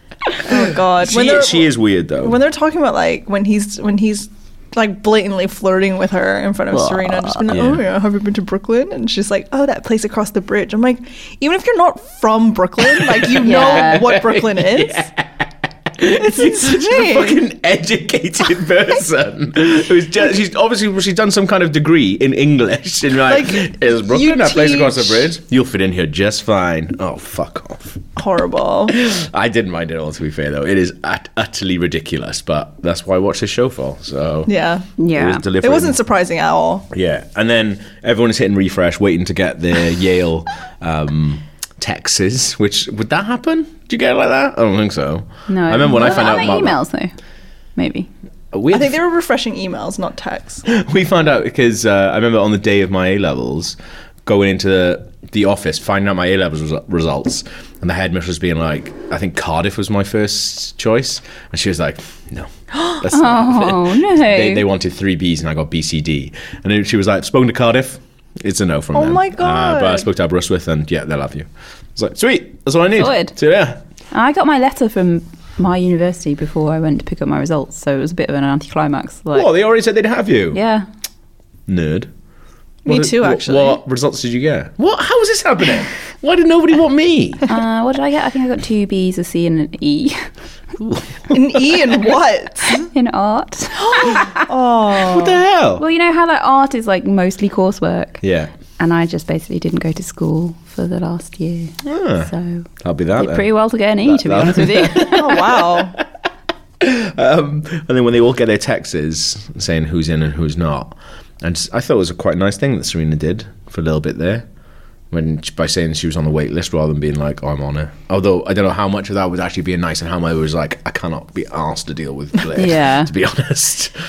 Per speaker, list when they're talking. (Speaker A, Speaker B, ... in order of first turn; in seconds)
Speaker A: 0.4-15.1, 16.1-17.4, 23.2-25.3, 28.2-29.0, 34.5-34.9, 35.6-36.9, 48.7-50.6, 68.9-70.1, 82.8-83.8, 91.3-92.9, 93.8-95.4, 104.9-106.0
Speaker B: 0.5-2.4, 7.5-7.8, 12.8-28.0, 28.9-34.5, 35.1-36.0, 36.9-46.8, 48.5-49.0, 50.6-73.8, 79.3-80.6, 81.7-82.1, 82.8-87.5, 90.8-91.0, 95.0-95.8, 98.2-98.5, 101.8-103.5, 104.0-105.7, 106.8-114.5, 115.1-123.9
Speaker C: 6.7-7.4, 13.4-14.1, 35.0-35.4, 45.5-47.1, 47.8-48.1, 63.1-64.7, 73.0-73.3, 74.1-79.5, 80.5-80.8, 87.5-90.3, 92.7-94.5, 95.8-98.2, 98.8-105.5, 122.5-123.1